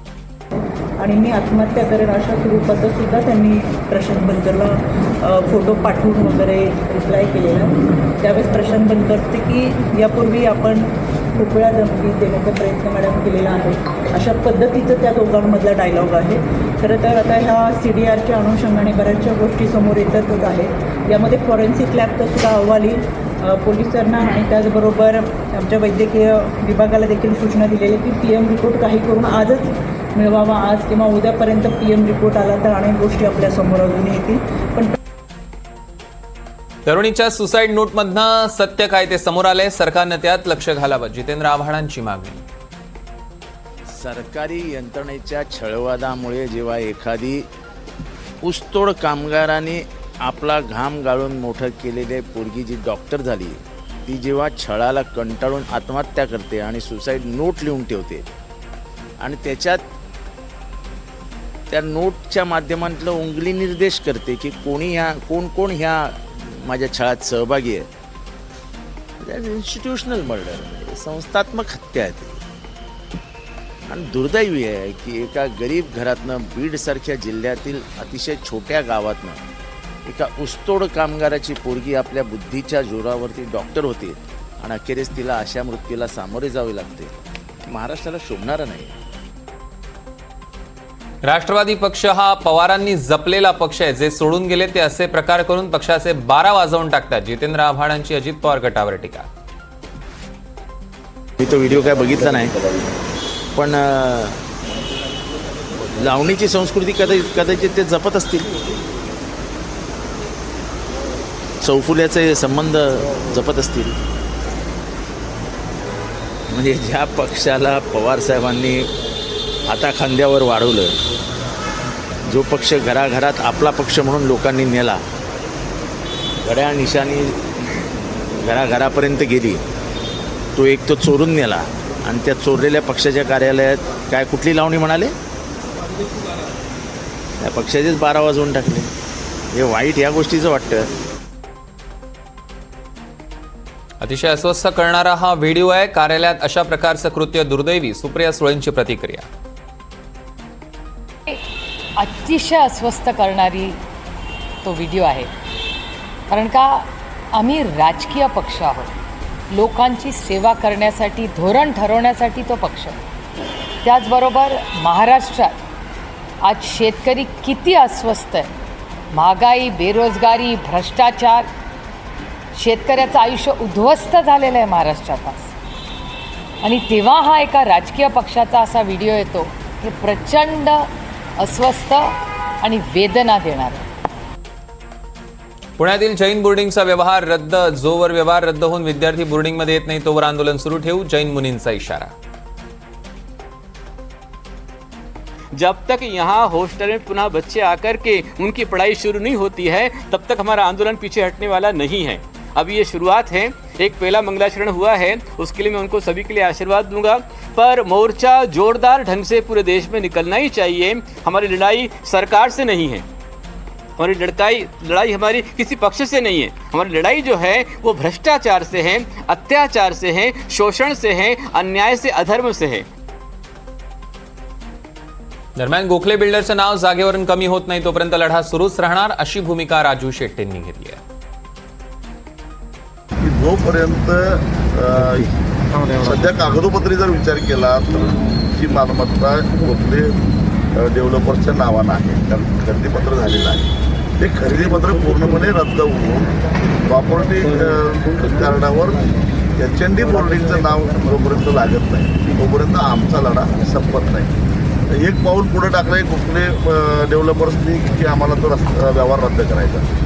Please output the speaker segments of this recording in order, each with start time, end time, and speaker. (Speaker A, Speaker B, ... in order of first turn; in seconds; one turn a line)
Speaker A: 0.6-34.9
Speaker B: 36.9-42.4
Speaker C: 44.0-47.4
Speaker C: 48.5-58.2
Speaker C: 59.2-59.8
Speaker C: 61.7-66.2
Speaker C: 66.7-67.9
Speaker C: 69.2-72.4
Speaker C: 73.9-79.4
Speaker C: 80.1-87.1
Speaker C: 87.7-88.9
Speaker B: 91.2-99.3
Speaker C: 101.5-102.5
Speaker C: 103.5-104.3
Speaker C: 106.1-108.5
Speaker C: 111.6-114.0
Speaker C: 116.6-118.9
Speaker C: 119.7-120.9
Speaker C: 122.3-125.0
Speaker C: 126.4-127.3
Speaker C: 128.4-129.6
Speaker C: 130.6-135.1
Speaker C: 137.4-138.9
Speaker C: 139.5-140.9
Speaker B: 144.0-149.3
Speaker D: 152.0-153.8
Speaker D: 154.6-155.3
Speaker D: 156.3-158.9
Speaker D: 159.5-163.0
Speaker D: 163.8-165.6
Speaker D: 166.4-168.5
Speaker D: 169.1-171.5
Speaker D: 172.5-175.5
Speaker D: 176.6-183.8
Speaker B: 185.8-192.1
Speaker E: 195.6-199.1
Speaker E: 200.0-202.0
Speaker E: 202.8-203.2
Speaker E: 204.3-207.0
Speaker E: 207.6-212.9
Speaker E: 214.0-221.2
Speaker E: 221.7-222.7
Speaker B: 225.6-231.0
Speaker F: 233.2-235.2
Speaker F: 236.0-240.2
Speaker F: 240.8-246.3
Speaker F: 246.9-249.0
Speaker F: 249.6-254.3
Speaker F: 254.9-259.9